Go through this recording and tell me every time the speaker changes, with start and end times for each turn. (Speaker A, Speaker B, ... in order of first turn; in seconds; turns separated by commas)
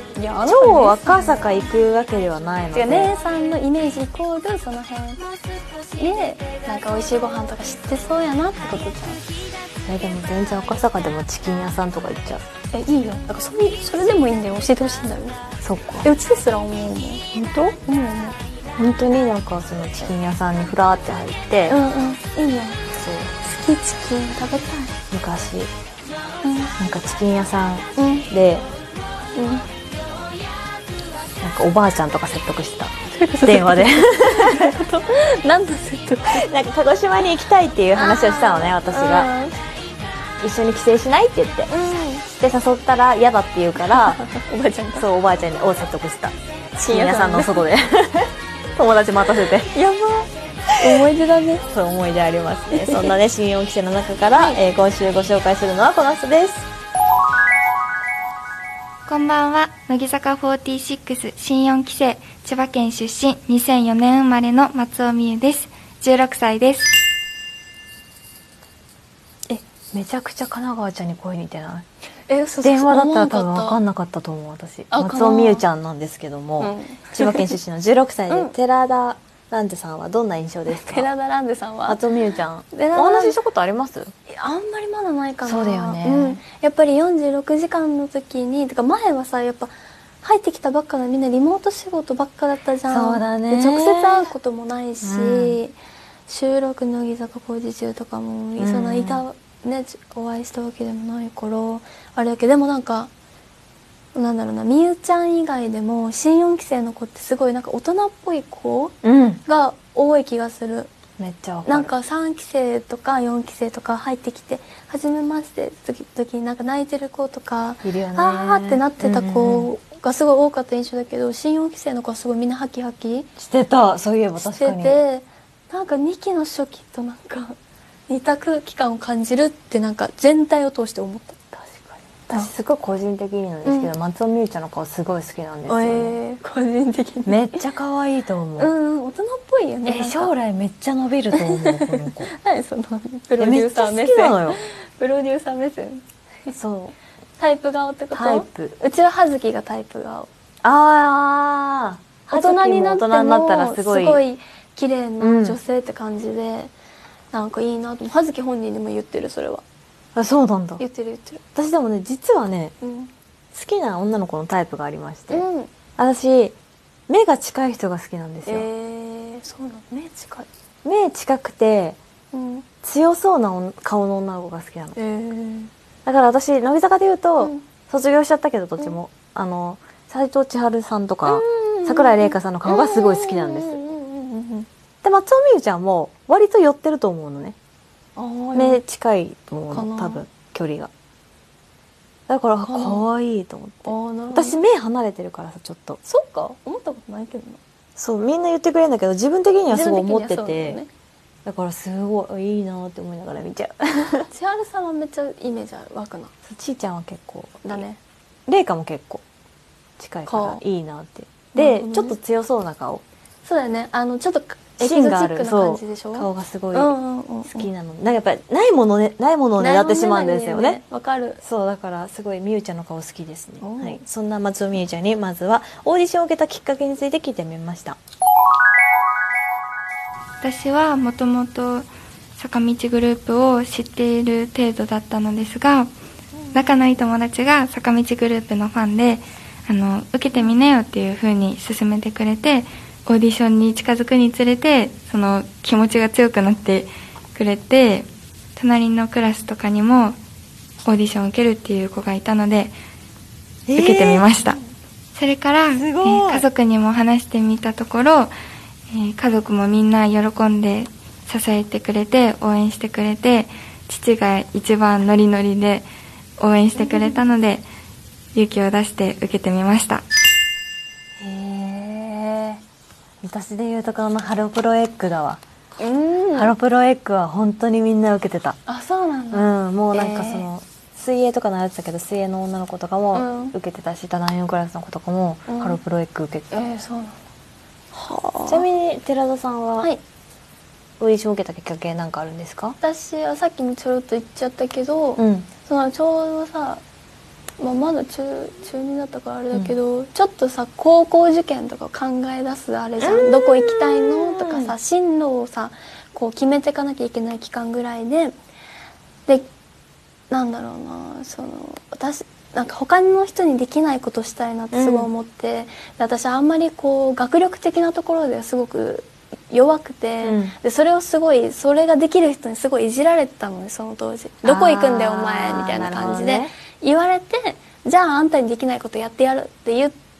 Speaker A: 0.1-1.6, Speaker B: 0.4-3.1, Speaker A: 2.7-5.2, Speaker A: 5.9-9.2, Speaker B: 9.8-12.5, Speaker A: 12.7-15.4, Speaker B: 15.6-16.1, Speaker A: 16.0-17.2, Speaker B: 17.3-17.8, Speaker A: 17.9-18.4, Speaker B: 18.8-21.8, Speaker A: 21.7-22.8, Speaker B: 22.9-23.4, Speaker A: 23.4-24.9, Speaker B: 25.1-25.7, Speaker A: 26.4-26.7, Speaker B: 26.8-28.7, Speaker A: 28.0-28.3, Speaker A: 29.4-29.6, Speaker B: 31.4-34.7, Speaker A: 33.1-36.5, Speaker B: 36.3-39.3, Speaker A: 37.9-39.5, Speaker B: 40.4-41.7, Speaker A: 41.7-42.3, Speaker B: 42.3-44.2, Speaker A: 43.9-45.0, Speaker B: 45.0-49.7, Speaker A: 46.9-47.5, Speaker A: 49.7-51.6, Speaker B: 51.7-56.7, Speaker A: 52.7-53.1, Speaker C: 59.0-67.0, Speaker B: 69.5-71.8, Speaker A: 72.3-73.8, Speaker B: 72.6-81.1, Speaker A: 74.9-75.6, Speaker A: 76.6-77.5, Speaker A: 80.7-82.0, Speaker B: 81.9-84.1, Speaker A: 82.7-83.3, Speaker A: 84.3-95.8, Speaker B: 85.5-86.4, Speaker B: 92.9-94.3, Speaker B: 95.0-95.6, Speaker A: 96.3-103.1, Speaker B: 98.6-99.2, Speaker A: 104.1-110.9, Speaker B: 109.0-109.4, Speaker B: 111.2-111.9, Speaker A: 111.7-123.3, Speaker B: 117.8-119.7, Speaker B: 123.4-125.0, Speaker A: 124.4-127.5, Speaker A: 128.1-131.4, Speaker B: 131.5-136.2, Speaker A: 133.6-133.9, Speaker A: 135.7-137.4, Speaker B: 137.3-138.7, Speaker A: 138.6-140.3, Speaker B: 139.8-142.3, Speaker A: 141.3-146.5, Speaker B: 143.4-144.6, Speaker B: 146.5-146.9, Speaker A: 147.4-150.3, Speaker B: 148.1-148.8, Speaker B: 150.6-154.2, Speaker A: 152.3-156.7, Speaker B: 155.2-155.6, Speaker A: 157.3-159.6, Speaker B: 160.1-160.8, Speaker A: 160.8-161.4, Speaker B: 161.6-162.7, Speaker A: 162.8-163.1, Speaker B: 163.5-165.4, Speaker A: 165.3-165.7, Speaker B: 166.0-166.6, Speaker B: 167.1-168.7, Speaker A: 168.4-170.5, Speaker B: 170.8-172.0, Speaker A: 172.3-172.7, Speaker B: 172.8-175.0, Speaker A: 174.9-175.7, Speaker B: 176.1-183.8, Speaker A: 181.3-184.7, Speaker B: 185.0-187.6, Speaker A: 188.2-188.8, Speaker B: 188.6-190.9, Speaker A: 189.7-190.2, Speaker B: 192.3-196.0, Speaker A: 192.6-193.0, Speaker A: 193.8-194.6, Speaker A: 196.0-197.6, Speaker B: 197.9-200.8, Speaker A: 199.7-200.9, Speaker B: 201.4-204.3, Speaker A: 204.3-206.3, Speaker B: 206.4-207.8, Speaker A: 207.6-208.0, Speaker B: 208.5-209.2, Speaker B: 210.0-213.0, Speaker A: 210.3-210.6, Speaker A: 211.5-212.1, Speaker A: 213.4-217.7, Speaker B: 214.8-216.9, Speaker B: 217.5-220.8, Speaker A: 219.6-221.4, Speaker B: 221.4-228.0, Speaker A: 223.6-224.0, Speaker C: 230.4-235.9, Speaker C: 236.5-250.2, Speaker C: 250.8-252.7, Speaker B: 253.7-254.3, Speaker C: 253.7-254.6, Speaker C: 255.1-258.3, Speaker B: 255.7-256.4, Speaker C: 258.9-265.9, Speaker C: 266.4-267.6, Speaker A: 266.9-267.1, Speaker C: 268.3-270.0, Speaker B: 271.2-272.6, Speaker B: 273.2-275.4, Speaker A: 275.8-276.5, Speaker B: 276.4-278.6, Speaker A: 278.7-280.5, Speaker B: 279.3-286.5, Speaker A: 283.1-283.6, Speaker A: 285.5-285.8, Speaker A: 286.5-287.2, Speaker A: 287.9-288.6, Speaker B: 288.5-289.9, Speaker B: 291.0-292.8, Speaker A: 292.8-296.8, Speaker B: 295.2-295.5, Speaker A: 297.6-308.4, Speaker B: 303.0-304.7, Speaker A: 310.3-329.9, Speaker B: 314.7-315.1, Speaker B: 320.2-320.6, Speaker B: 324.4-326.5